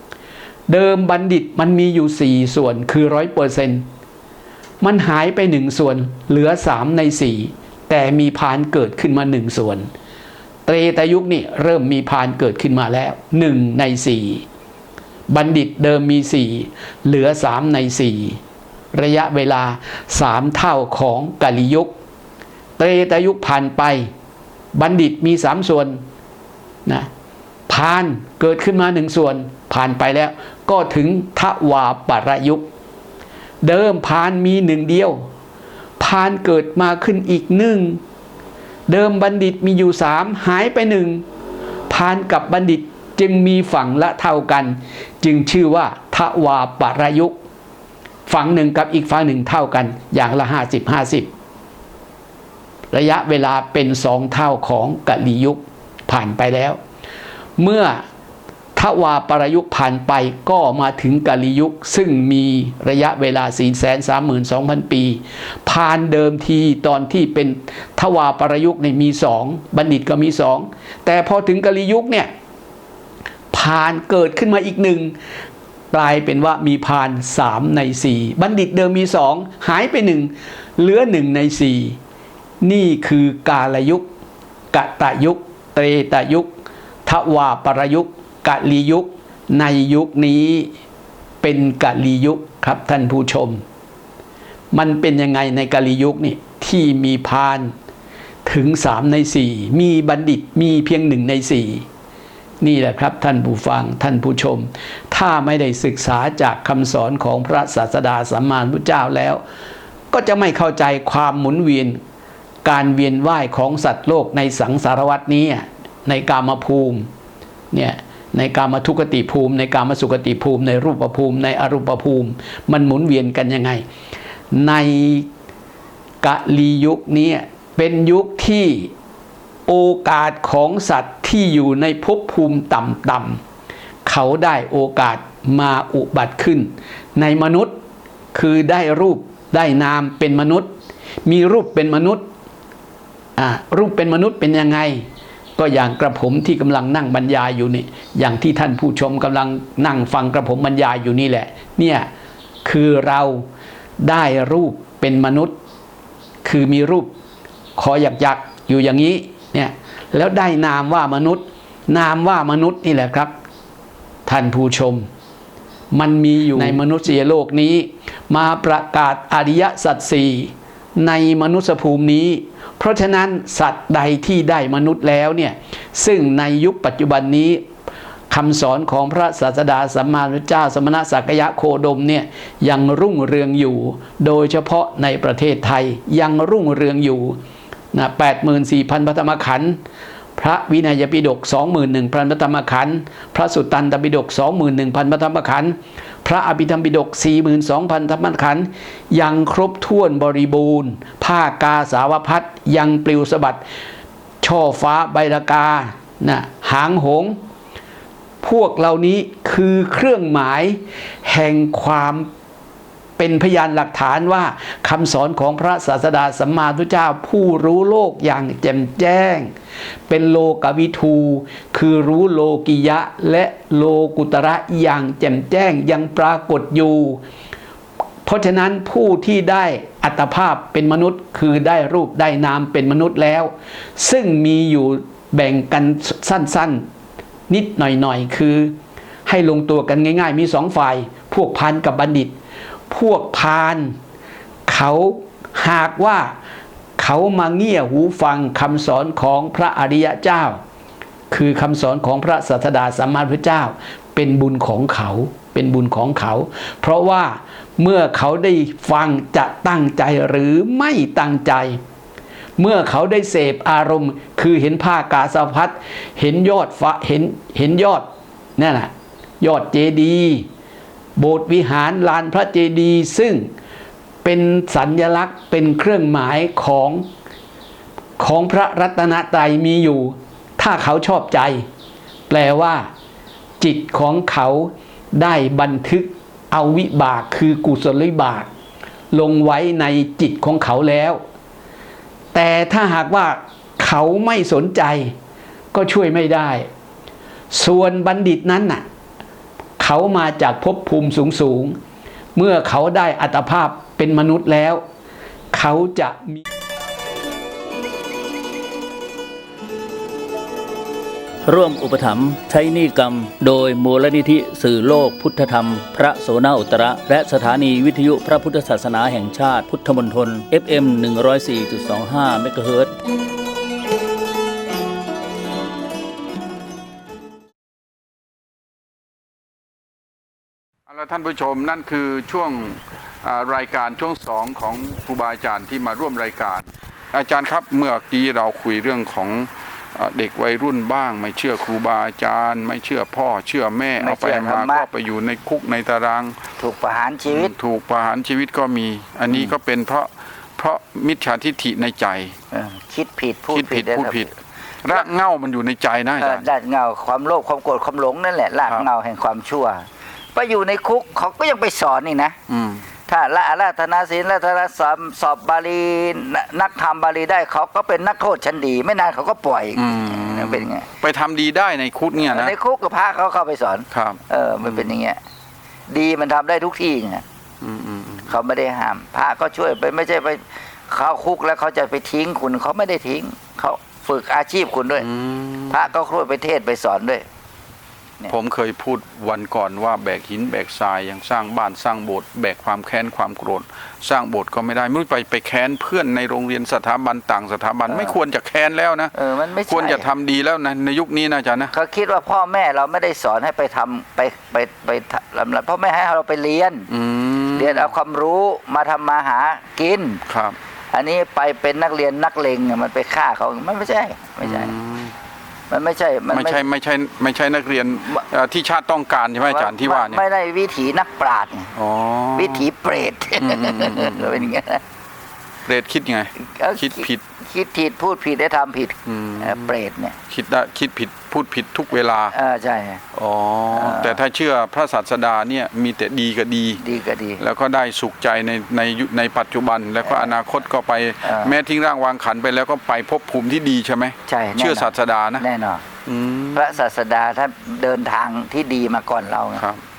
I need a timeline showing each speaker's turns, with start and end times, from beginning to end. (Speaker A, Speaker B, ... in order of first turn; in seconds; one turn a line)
Speaker A: 0.7-3.9
Speaker A: 4.8-9.9
Speaker A: 10.7-14.4
Speaker A: 15.3-18.4
Speaker A: 18.9-21.9
Speaker A: 22.8-24.1
Speaker A: 24.7-26.0
Speaker A: 27.7-32.7
Speaker A: 33.6-35.3
Speaker A: 36.0-38.0
Speaker A: 38.9-41.2
Speaker A: 41.9-47.4
Speaker A: 48.3-51.3
Speaker A: 52.9-56.8
Speaker A: 57.6-58.0
Speaker A: 58.8-72.3
Speaker A: 73.5-75.1
Speaker A: 75.9-82.0
Speaker A: 82.6-84.1
Speaker A: 84.7-86.5
Speaker A: 87.1-90.7
Speaker A: 91.4-93.6
Speaker A: 94.7-97.7
Speaker A: 98.5-101.9
Speaker A: 102.6-109.4
Speaker A: 110.1-112.0
Speaker A: 112.7-117.1
Speaker A: 117.7-123.8
Speaker A: 124.5-125.3
Speaker A: 126.2-128.9
Speaker A: 129.7-133.4
Speaker A: 134.1-137.8
Speaker A: 138.3-140.7
Speaker A: 141.2-142.3
Speaker A: 143.4-145.1
Speaker A: 145.6-152.1
Speaker A: 152.7-153.5
Speaker A: 154.0-155.6
Speaker A: 156.4-157.1
Speaker A: 157.8-163.3
Speaker A: 164.3-165.1
Speaker A: 165.9-177.7
Speaker A: 178.3-187.4
Speaker A: 187.9-189.8
Speaker A: 190.4-203.6
Speaker A: 204.4-207.4
Speaker A: 208.4-212.3
Speaker A: 213.2-219.5
Speaker A: 220.1-227.2
Speaker A: 228.2-236.9
Speaker A: 237.5-242.3
Speaker A: 242.9-243.9
Speaker A: 244.7-246.3
Speaker A: 247.0-250.6
Speaker A: 251.3-261.8
Speaker A: 262.6-270.5
Speaker A: 271.2-273.5
Speaker A: 274.2-277.1
Speaker A: 278.2-281.7
Speaker A: 282.3-282.9
Speaker A: 283.6-288.5
Speaker A: 289.1-291.2
Speaker A: 292.3-295.1
Speaker A: 295.7-296.7
Speaker A: 297.5-298.8
Speaker A: 299.8-301.8
Speaker A: 302.4-304.8
Speaker A: 305.5-306.4
Speaker B: 311.4-322.9
Speaker C: 330.9-346.4
Speaker D: 344.0-344.9
Speaker D: 346.6-347.5
Speaker C: 347.3-352.4
Speaker D: 352.5-354.3
Speaker C: 353.5-354.3
Speaker C: 354.8-356.5
Speaker D: 356.2-362.4
Speaker C: 362.5-362.9
Speaker D: 363.1-370.9
Speaker C: 369.8-372.6
Speaker D: 372.2-375.2
Speaker C: 373.9-374.9
Speaker D: 375.9-377.2
Speaker C: 377.6-378.3
Speaker D: 378.3-385.1
Speaker C: 385.0-385.9
Speaker D: 385.7-387.2
Speaker C: 388.3-399.1
Speaker D: 397.9-398.1
Speaker D: 399.2-400.1
Speaker C: 399.7-401.7
Speaker D: 401.7-406.9
Speaker C: 406.9-407.9
Speaker D: 407.5-410.2
Speaker C: 410.3-410.6
Speaker D: 410.9-414.7
Speaker C: 414.4-415.1
Speaker D: 415.7-416.6
Speaker C: 416.3-420.2
Speaker D: 419.4-421.7
Speaker C: 421.8-422.7
Speaker D: 422.4-424.8
Speaker C: 423.4-424.5
Speaker C: 425.7-427.2
Speaker D: 426.4-430.2
Speaker C: 429.1-429.8
Speaker C: 430.3-432.4
Speaker D: 432.3-433.0
Speaker C: 433.1-436.8
Speaker D: 433.7-434.2
Speaker D: 436.8-437.4
Speaker C: 437.4-445.5
Speaker D: 441.2-441.5
Speaker D: 444.3-445.9
Speaker C: 446.1-446.8
Speaker D: 446.6-449.6
Speaker C: 449.6-449.8